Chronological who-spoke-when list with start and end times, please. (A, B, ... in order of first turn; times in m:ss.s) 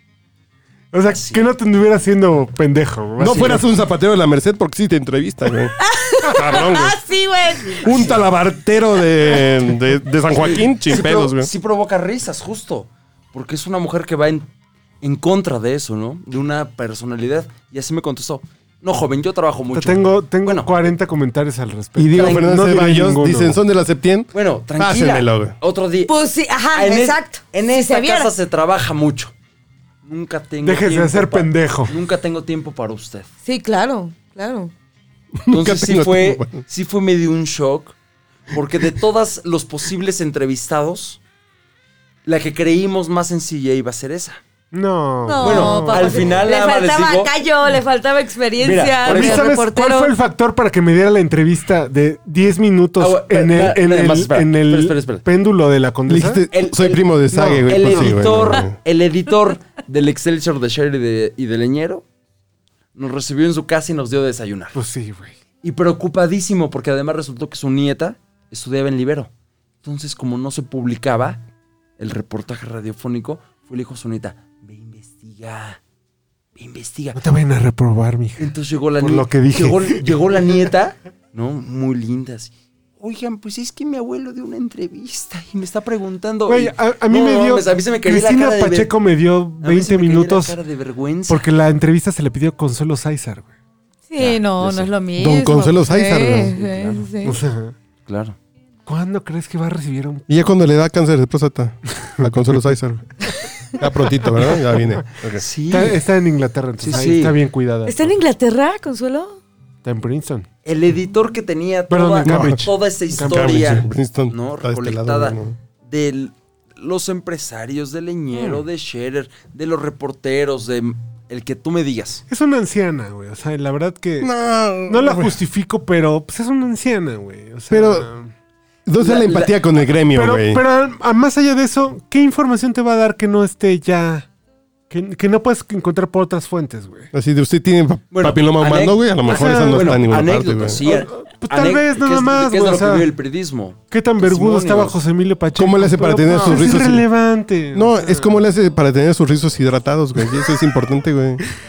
0:00.9-0:03.7 A
0:01.1-0:01.5 B
0:03.2-0:05.7 C
0:05.8-0:07.9 D
0:06.3-0:07.0 C
0:07.8-0:11.5 C
0:07.8-0:08.2 B
0:10.4-0:14.5 B
0:15.0-0:20.9 B
0:19.7-0:23.6 A
0:22.0-0:25.6 C
0:22.2-0:22.6 B
0:24.3-0:26.1 B
0:26.1-0:28.3 D
0:26.7-0:29.3 B
0:30.0-0:33.3 B
0:30.6-0:32.0 A
0:33.4-0:34.7 D
0:35.4-0:36.6 C
0:35.5-0:38.0 B
0:38.5-0:41.2 B
0:42.3-0:44.4 B
0:44.7-0:46.4 A
0:45.2-0:50.1 D
0:45.4-0:47.3 B
0:48.6-0:49.4 B
0:49.1-0:56.4 A
0:53.0-0:55.2 B
0:56.1-0:58.8 C
0:56.5-1:02.0 B
0:57.4-0:58.2 A
1:03.0-1:04.8 B
1:04.8-1:05.4 A
1:05.6-1:09.3 B
1:09.8-1:11.4 B
1:12.0-1:15.8 B
1:16.6-1:17.2 B
1:17.2-1:20.6 A
1:18.4-1:28.9 B
1:26.5-1:30.6 A
1:29.6-1:31.5 B
1:31.3-1:33.5 A
1:34.1-1:37.4 D
1:34.2-1:34.9 B
1:35.2-1:36.6 C
1:36.3-1:37.1 B
1:37.2-1:37.8 A
1:38.1-1:38.4 B
1:38.9-1:40.3 A
1:40.3-1:43.1 C
1:42.1-1:42.7 A
1:43.7-1:45.4 C
1:45.4-1:46.0 B
1:45.7-1:48.1 A
1:46.8-1:47.4 B
1:47.8-1:49.4 D
1:49.8-1:50.5 A
1:50.6-2:02.2 B
1:51.9-1:53.7 A
1:52.2-1:52.6 C
1:53.2-1:55.6 C
2:02.3-2:04.3 A
2:04.2-2:05.4 C
2:04.8-2:08.3 A
2:07.7-2:08.1 C
2:08.9-2:10.6 C
2:09.0-2:09.5 B
2:10.1-2:14.3 A
2:14.9-2:17.1 A
2:17.1-2:20.8 C
2:18.1-2:25.0 B
2:19.2-2:20.1 A
2:20.8-2:23.1 A
2:23.9-2:28.4 A
2:25.6-2:27.1 C
2:27.7-2:31.4 C